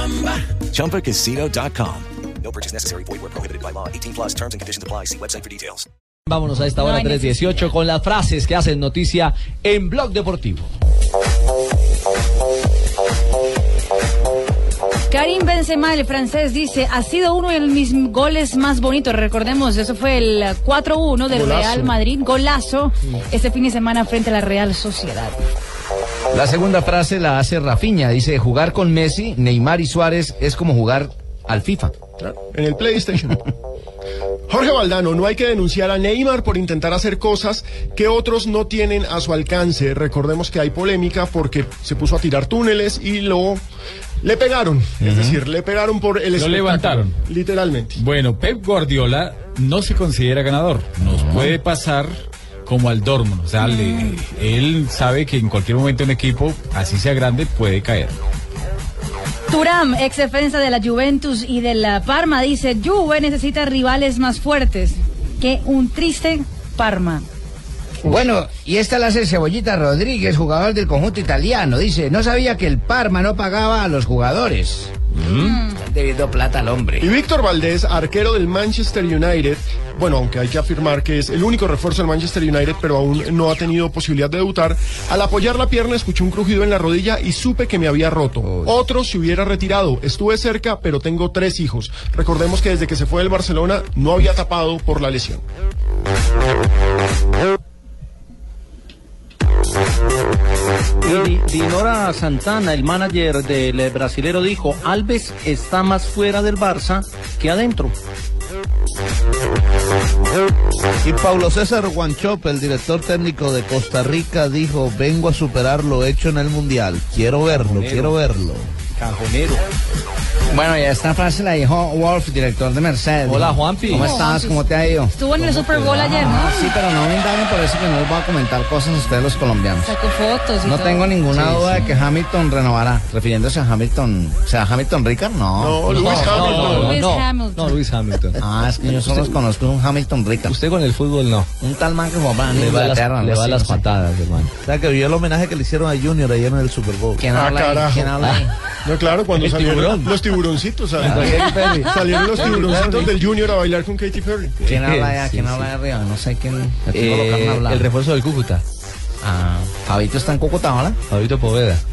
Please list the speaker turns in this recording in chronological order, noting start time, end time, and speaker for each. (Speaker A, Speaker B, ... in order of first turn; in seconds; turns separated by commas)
Speaker A: 0.6-5.9, Speaker B: 6.3-10.7, Speaker C: 6.8-7.8, Speaker C: 15.1-25.4, Speaker D: 21.3-22.0, Speaker E: 26.3-31.9, Speaker D: 32.2-33.4, Speaker D: 34.5-43.6, Speaker D: 44.2-48.0, Speaker E: 45.0-45.4, Speaker F: 46.4-47.2, Speaker F: 48.0-58.2, Speaker E: 51.0-51.6, Speaker C: 53.6-54.2, Speaker C: 59.5-67.3, Speaker E: 68.0-77.1, Speaker C: 75.3-75.8, Speaker D: 77.0-95.4, Speaker G: 101.0-108.0, Speaker H: 111.0-118.7, Speaker B: 117.4-118.2, Speaker B: 118.9-119.6, Speaker E: 120.5-125.2, Speaker B: 123.2-124.2, Speaker C: 123.9-126.8, Speaker B: 125.3-126.2, Speaker E: 126.0-130.0, Speaker C: 129.8-132.1, Speaker E: 130.6-136.5, Speaker B: 131.2-131.8, Speaker D: 135.6-136.9, Speaker C: 135.9-137.8, Speaker B: 136.1-138.4, Speaker F: 136.5-136.9, Speaker E: 138.4-140.6, Speaker B: 139.1-139.4, Speaker B: 140.5-141.5, Speaker E: 141.6-143.8, Speaker B: 142.5-144.6, Speaker H: 144.7-147.3, Speaker E: 147.2-148.5, Speaker D: 147.3-148.1, Speaker B: 148.2-148.5, Speaker D: 148.8-154.6, Speaker B: 149.3-150.2, Speaker B: 151.0-153.2, Speaker E: 151.1-151.4, Speaker C: 151.4-152.3, Speaker B: 154.6-155.7, Speaker E: 154.6-157.9, Speaker B: 156.9-158.6, Speaker E: 159.2-161.0, Speaker B: 161.1-161.8